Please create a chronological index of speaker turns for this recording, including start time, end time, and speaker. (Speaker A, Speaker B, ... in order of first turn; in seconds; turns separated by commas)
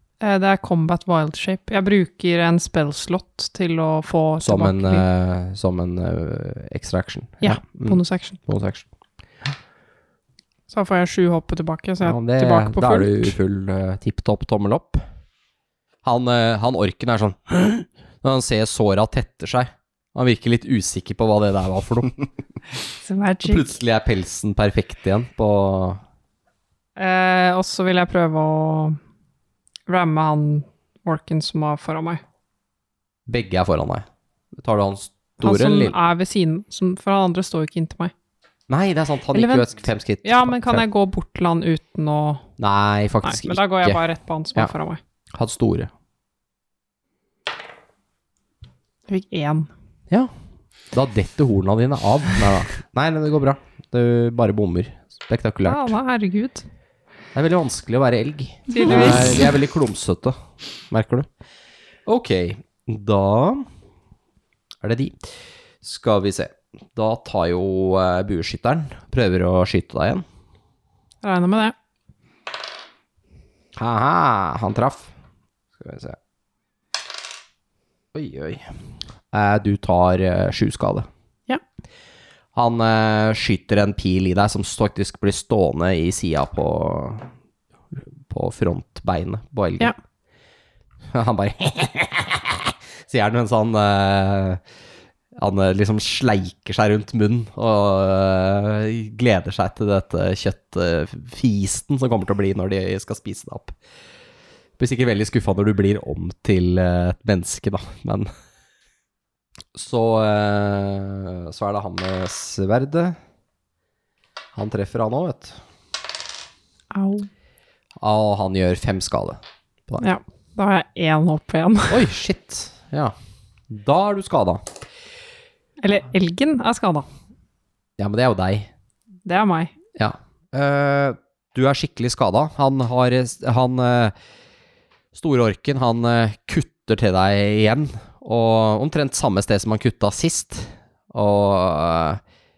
Speaker A: 0.2-5.0, Speaker B: 4.4-8.8, Speaker A: 7.4-8.4, Speaker A: 10.7-13.3, Speaker B: 12.0-15.0, Speaker B: 16.0-22.1, Speaker A: 23.0-23.7, Speaker B: 23.4-26.0, Speaker A: 26.9-29.0, Speaker A: 29.9-32.2, Speaker B: 33.3-36.0, Speaker A: 35.4-38.1, Speaker B: 38.7-40.8, Speaker A: 39.3-39.7, Speaker A: 40.2-42.4, Speaker B: 42.6-44.0, Speaker A: 43.2-45.0, Speaker B: 45.3-45.9, Speaker A: 49.1-49.7, Speaker B: 50.9-55.9, Speaker A: 55.6-56.6, Speaker B: 57.3-60.4, Speaker A: 58.7-59.5, Speaker B: 60.9-61.3, Speaker B: 62.0-63.7, Speaker B: 64.8-65.2, Speaker B: 65.8-70.2, Speaker A: 71.2-71.7, Speaker B: 73.8-75.1, Speaker B: 75.8-76.2, Speaker B: 78.1-78.7, Speaker B: 79.3-81.1, Speaker B: 82.5-87.3, Speaker B: 88.3-89.9, Speaker B: 91.1-94.6, Speaker B: 95.4-103.8, Speaker B: 104.8-108.3, Speaker B: 109.7-113.2, Speaker B: 114.5-115.6, Speaker A: 116.9-117.3, Speaker B: 118.0-120.0, Speaker A: 120.0-122.0, Speaker B: 121.9-123.1, Speaker B: 123.7-124.6, Speaker A: 125.8-127.1, Speaker B: 128.0-128.7, Speaker A: 129.2-129.7, Speaker B: 129.9-134.1, Speaker B: 135.1-142.2